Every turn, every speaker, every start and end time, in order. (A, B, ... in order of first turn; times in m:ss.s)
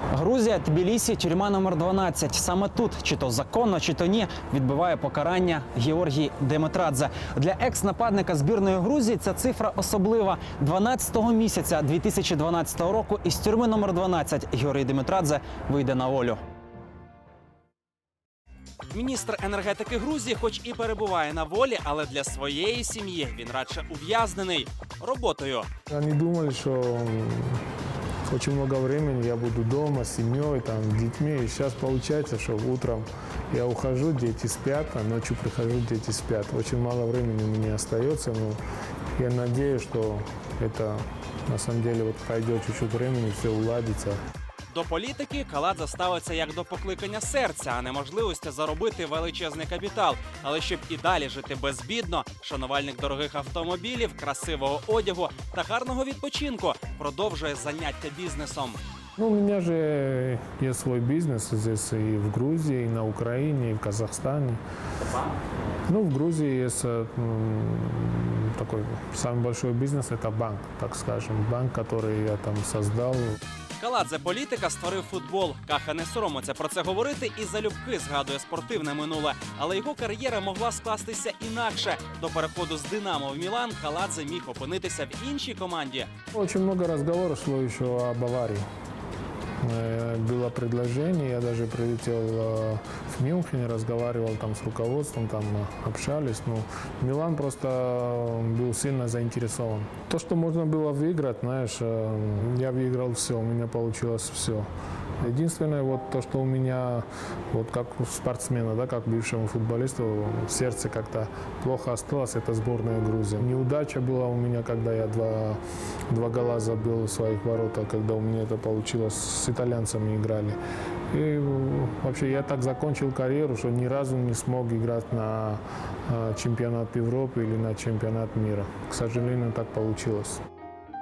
0:00.1-0:16.4 A
0:18.9-0:25.7 B
0:25.9-0:27.6 C
0:28.3-0:38.6 C
0:39.2-0:44.2 C
0:44.7-0:58.8 B
0:59.2-1:04.6 C
1:05.8-1:13.3 C
1:13.8-1:26.1 B
1:26.3-1:28.6 C
1:29.6-1:44.7 C
1:45.2-2:00.6 C
2:01.1-2:10.4 C